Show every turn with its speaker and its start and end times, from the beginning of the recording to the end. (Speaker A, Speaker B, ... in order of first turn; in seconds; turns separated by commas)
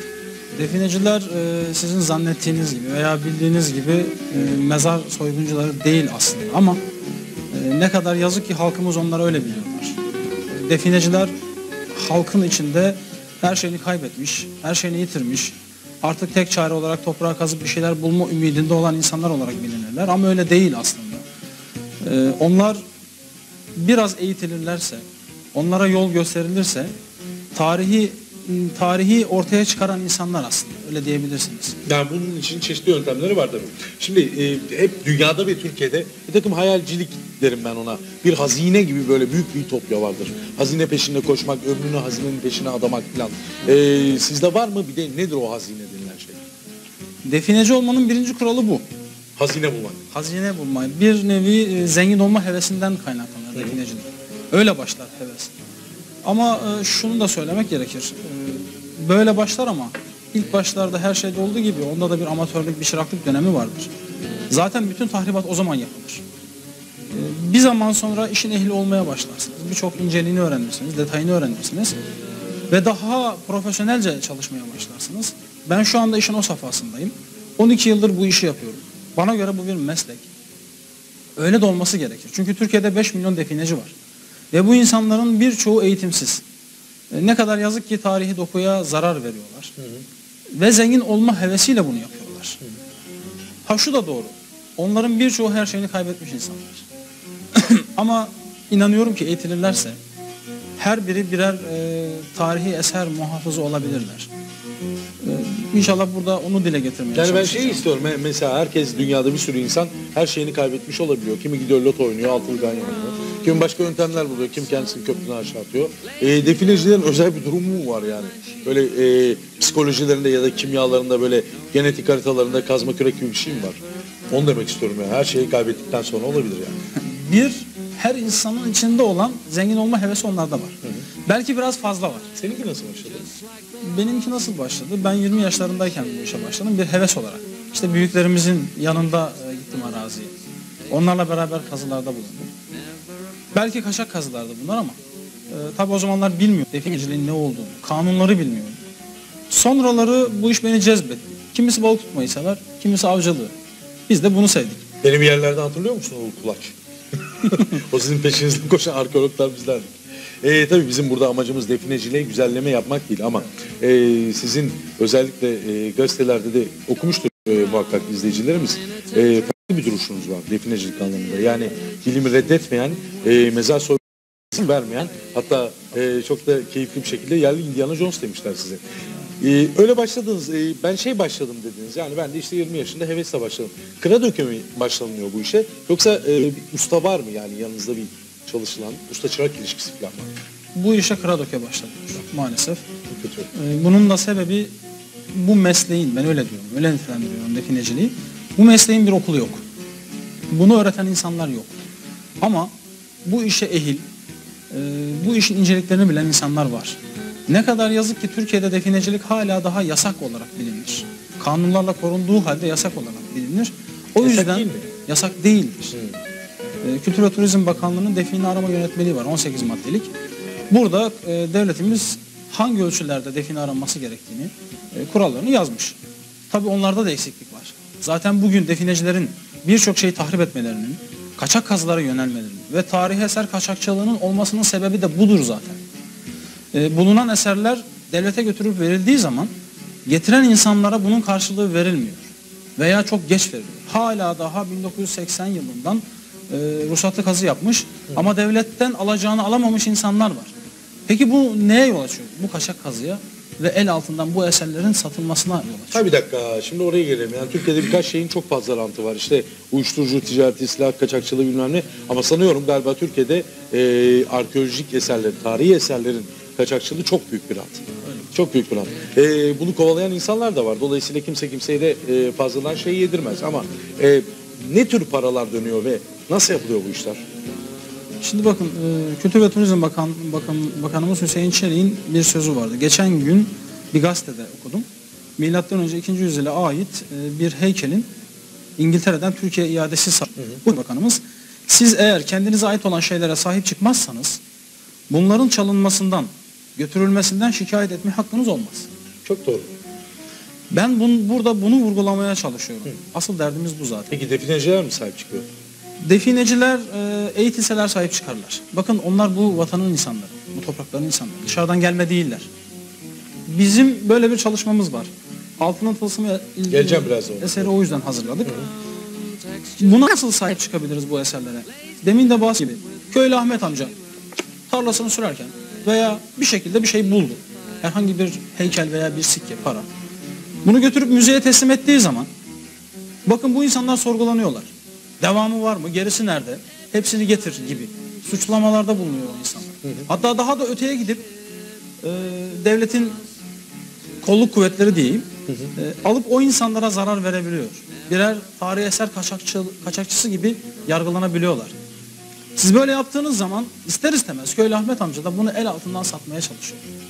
Speaker A: 0.5-6.8, Speaker A: 7.5-10.0, Speaker A: 10.5-11.3, Speaker A: 11.9-21.2, Speaker A: 22.0-22.8, Speaker A: 23.8-25.0, Speaker A: 25.5-26.9, Speaker A: 27.5-31.8, Speaker B: 31.8-46.4, Speaker A: 47.2-48.8, Speaker B: 49.4-50.0, Speaker A: 50.1-55.5, Speaker A: 56.2-63.9, Speaker A: 64.5-66.2, Speaker A: 67.1-72.0, Speaker A: 72.7-80.3, Speaker A: 81.3-83.9, Speaker A: 84.5-86.4, Speaker A: 87.1-89.7, Speaker A: 90.5-92.6, Speaker A: 93.7-96.8, Speaker A: 97.5-100.0, Speaker A: 100.8-104.3, Speaker A: 105.2-107.8, Speaker B: 107.1-126.8, Speaker A: 127.0-132.3, Speaker B: 132.3-133.3, Speaker A: 133.8-140.3, Speaker A: 140.9-142.5, Speaker A: 143.5-145.0, Speaker A: 145.5-148.8, Speaker A: 149.5-153.5, Speaker A: 154.1-154.9, Speaker B: 155.0-156.8, Speaker B: 157.3-178.8, Speaker B: 179.4-190.3, Speaker A: 190.7-192.8, Speaker B: 193.1-193.5, Speaker A: 193.5-194.7, Speaker A: 195.3-199.6, Speaker A: 200.5-201.8, Speaker A: 202.4-202.7, Speaker A: 203.2-204.0, Speaker A: 204.7-216.0, Speaker B: 214.2-214.8, Speaker A: 216.8-220.1, Speaker A: 220.7-225.9, Speaker A: 226.5-235.8, Speaker A: 236.7-239.5, Speaker A: 240.1-250.5, Speaker A: 251.1-256.1, Speaker B: 255.9-277.2, Speaker A: 278.2-284.8, Speaker A: 285.4-288.1, Speaker A: 288.8-294.4, Speaker A: 295.1-298.9, Speaker B: 299.2-299.7, Speaker A: 300.7-304.2, Speaker B: 304.1-305.5, Speaker A: 306.0-312.5, Speaker A: 313.5-318.7, Speaker B: 316.7-317.7, Speaker A: 319.8-323.9, Speaker A: 324.7-329.9, Speaker A: 330.6-332.3, Speaker A: 333.2-341.3, Speaker A: 342.0-343.2, Speaker A: 344.2-351.7, Speaker A: 352.6-356.9